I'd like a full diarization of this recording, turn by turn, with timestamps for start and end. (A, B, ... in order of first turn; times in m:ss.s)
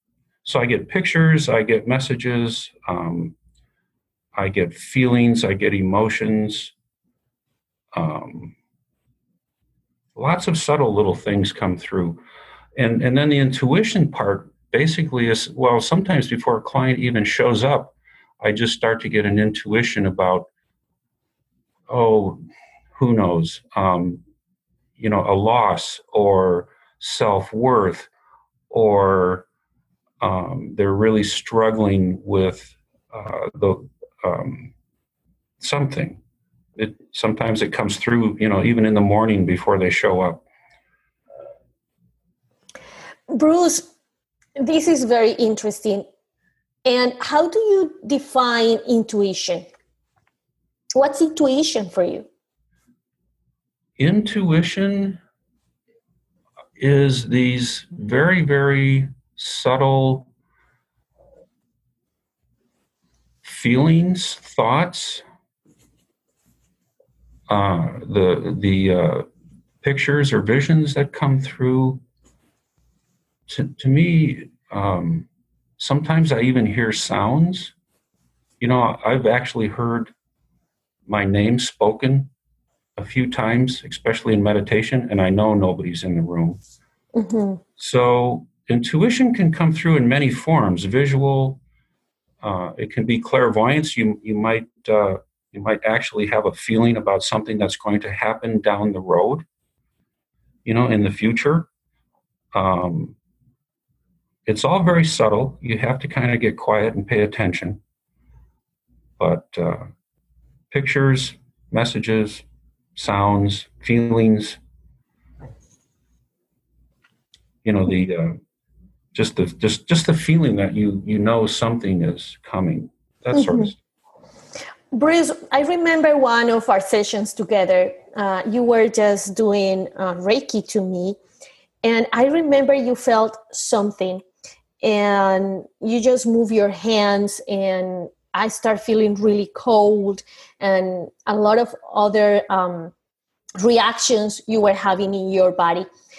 0:00.4-0:03.4 A
0:04.4-0:06.7 A
0:07.9-0:08.6 A
0:10.2-0:12.2 A
0:12.8-0:20.5 A
0:21.9-0:22.4 A
0:23.0-0:24.2 A
0:25.0-0:28.1 A
0:28.7-0:29.5 A
0:30.2-0:34.7 A
0:35.6-0:36.2 A
0:36.8-0:40.4 A
0:43.3-0:43.9 B
0:44.6-0:46.1 B
0:46.8-0:49.7 B
0:51.0-0:52.3 B
0:54.0-0:55.2 A
0:56.8-1:00.3 A
1:03.4-1:05.2 A
1:07.5-1:09.3 A
1:09.8-1:12.0 A
1:13.5-1:17.7 A
1:18.6-1:20.1 A
1:21.1-1:22.3 A
1:23.0-1:26.6 A
1:27.2-1:27.6 B
1:27.8-1:31.6 A
1:32.4-1:39.4 A
1:40.6-1:41.7 A
1:42.5-1:43.2 A
1:44.5-1:47.8 A
1:49.2-1:49.9 A
1:50.7-1:52.4 A
1:53.0-1:54.6 A
1:57.6-1:58.4 A
1:59.1-2:03.8 A
2:03.3-2:03.7 B
2:04.9-2:11.2 B
2:11.8-2:14.2 B
2:14.8-2:22.9 B
2:23.6-2:25.9 B